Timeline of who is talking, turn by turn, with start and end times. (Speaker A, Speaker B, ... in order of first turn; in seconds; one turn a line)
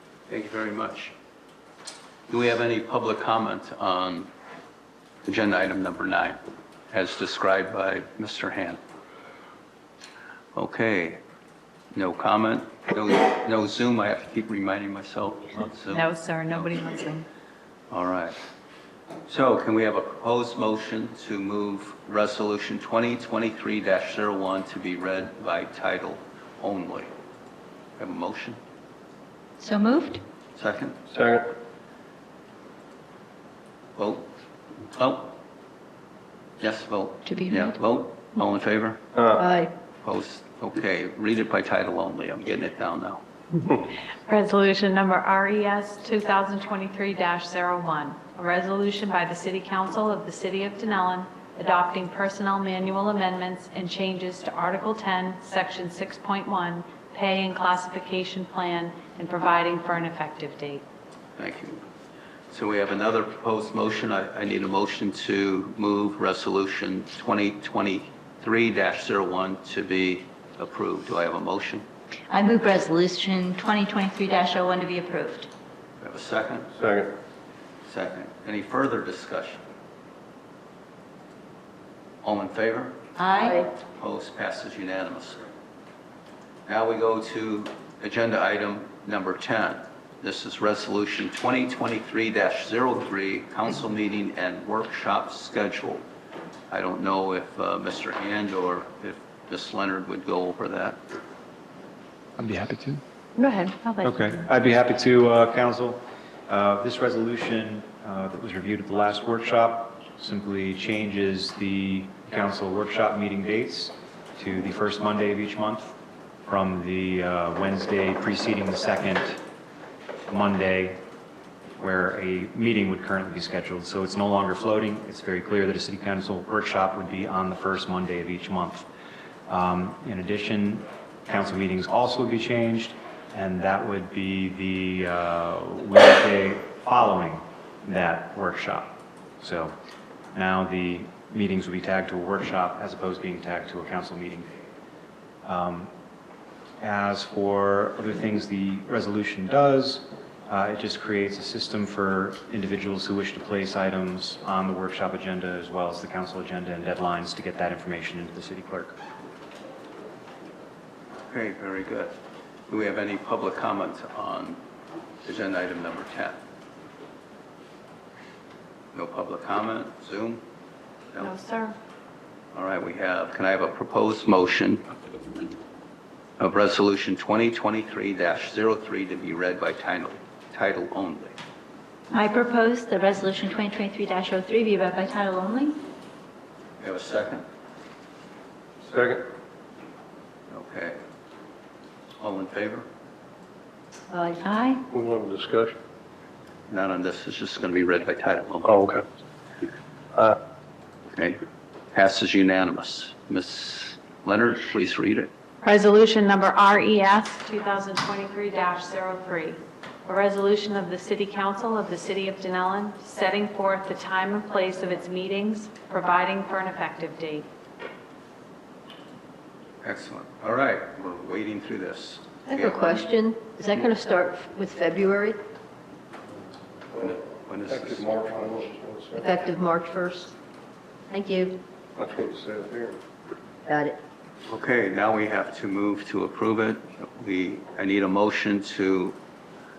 Speaker A: 0.3-1.1
Speaker A: 2.3-4.3
Speaker A: 5.2-6.4
Speaker A: 6.9-8.8
Speaker A: 10.5-11.2
Speaker A: 11.9-16.8
Speaker B: 15.9-17.3
Speaker A: 17.9-18.3
Speaker A: 19.3-27.1
Speaker A: 28.0-28.6
Speaker C: 29.6-30.2
Speaker A: 30.6-31.0
Speaker D: 31.1-31.5
Speaker A: 34.0-34.3
Speaker A: 34.9-35.4
Speaker A: 36.6-39.0
Speaker C: 37.3-37.7
Speaker D: 39.1-39.4
Speaker E: 39.4-39.7
Speaker A: 40.0-43.2
Speaker B: 44.3-60.8
Speaker A: 61.4-61.8
Speaker A: 62.5-71.9
Speaker C: 72.3-75.5
Speaker A: 76.0-76.7
Speaker D: 76.8-77.1
Speaker A: 77.9-79.6
Speaker A: 82.2-83.0
Speaker C: 83.2-83.7
Speaker A: 83.9-85.4
Speaker A: 86.7-96.0
Speaker A: 96.7-101.0
Speaker F: 102.4-103.0
Speaker B: 103.4-104.2
Speaker F: 104.0-115.9
Speaker F: 116.5-119.4
Speaker F: 120.3-121.0
Speaker F: 121.8-128.8
Speaker F: 129.5-139.7
Speaker F: 140.3-144.7
Speaker F: 145.4-145.9
Speaker F: 146.8-158.9
Speaker A: 161.3-162.1
Speaker A: 162.7-164.6
Speaker A: 165.2-166.4
Speaker A: 168.9-170.4
Speaker A: 171.1-171.4
Speaker E: 171.2-171.8
Speaker A: 172.5-174.8
Speaker A: 176.4-181.3
Speaker C: 182.1-185.8
Speaker A: 186.8-187.4
Speaker D: 188.8-189.3
Speaker A: 190.5-191.0
Speaker A: 192.2-192.8
Speaker C: 194.1-194.8
Speaker D: 194.9-195.8
Speaker A: 196.7-198.8
Speaker D: 198.6-199.0
Speaker A: 201.9-205.3
Speaker B: 205.6-217.5
Speaker A: 219.8-223.1
Speaker E: 222.5-225.4
Speaker A: 227.0-228.2
Speaker D: 227.7-229.3
Speaker E: 229.2-230.3
Speaker E: 231.1-231.6
Speaker D: 232.0-233.0
Speaker E: 233.7-234.0
Speaker A: 234.5-239.2